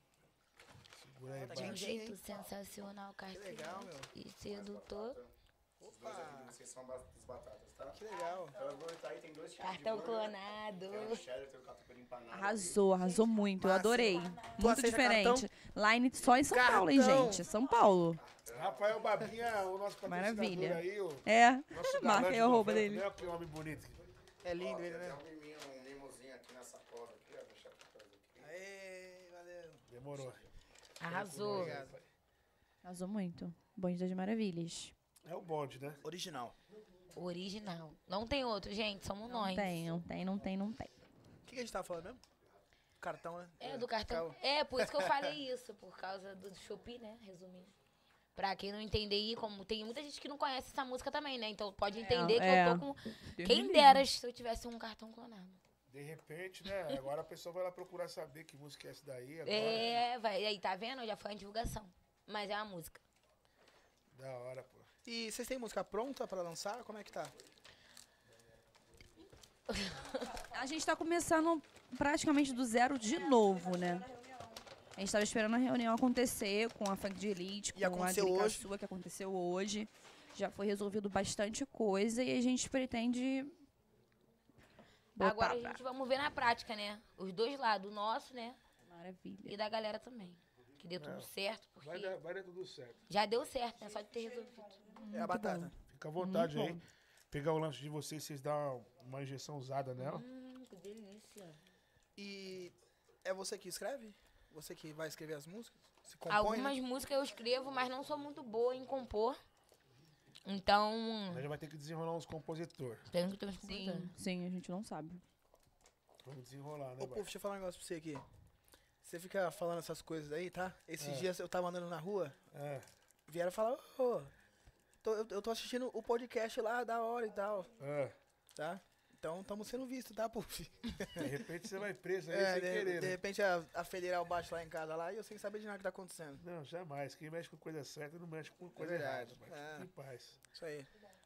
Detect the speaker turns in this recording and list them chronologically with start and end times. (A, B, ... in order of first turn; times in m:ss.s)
0:01.0-0:01.9 A
0:01.3-0:02.2 B
0:01.5-0:05.2 C
0:03.3-0:04.1 B
0:04.5-0:05.3 D
0:05.8-0:06.6 B
0:05.8-0:08.0 D
0:07.9-0:08.6 B
0:08.5-0:13.0 D
0:09.6-0:11.3 C
0:12.3-0:18.2 E
0:13.6-0:15.5 B
0:16.4-0:17.5 B
0:18.2-0:19.0 D
0:18.5-0:24.0 A
0:20.0-0:23.1 E
0:24.4-0:25.2 B
0:24.6-0:28.5 D
0:28.4-0:29.8 B
0:29.9-0:30.4 A
0:31.0-0:31.8 C
0:31.0-0:32.1 A
0:31.4-0:31.9 B
0:32.8-0:34.9 E
0:35.2-0:36.0 A
0:36.0-0:36.6 B
0:37.1-0:39.8 C
0:39.3-0:40.9 E
0:41.4-0:42.2 B
0:43.0-0:45.3 B
0:43.6-0:47.7 C
0:48.4-0:55.6 C
0:52.0-0:54.0 E
0:55.9-1:00.0 A
0:59.4-1:03.0 C
1:04.1-1:04.9 A
1:05.0-1:07.3 B
1:09.7-1:10.4 C
1:10.5-1:14.2 E
1:15.0-1:23.5 E
1:17.7-1:18.7 B
1:25.2-1:25.8 E
1:25.2-1:28.6 C
1:28.9-1:29.6 E
1:29.4-1:32.1 C
1:31.0-1:31.3 A
1:31.8-1:33.0 A
1:33.1-1:34.8 C
1:34.9-1:36.8 E
1:35.1-1:35.7 B
1:35.9-1:40.2 A
1:40.0-1:41.6 C
1:42.2-1:46.8 B
1:46.3-1:49.4 C
1:50.4-1:51.5 C
1:51.3-1:53.0 A
1:53.1-1:54.1 C
1:53.6-1:55.2 E
1:56.2-1:57.3 A
1:57.0-1:58.2 B
1:59.0-2:02.4 B
2:01.0-2:01.3 A
2:02.5-2:02.8 A
2:03.3-2:04.3 B
2:05.0-2:07.7 B
2:07.8-2:08.1 A
2:08.6-2:11.3 B
2:11.2-2:13.2 A
2:12.3-2:16.4 B
2:16.4-2:20.4 A
2:18.8-2:19.9 B
2:20.5-2:20.9 B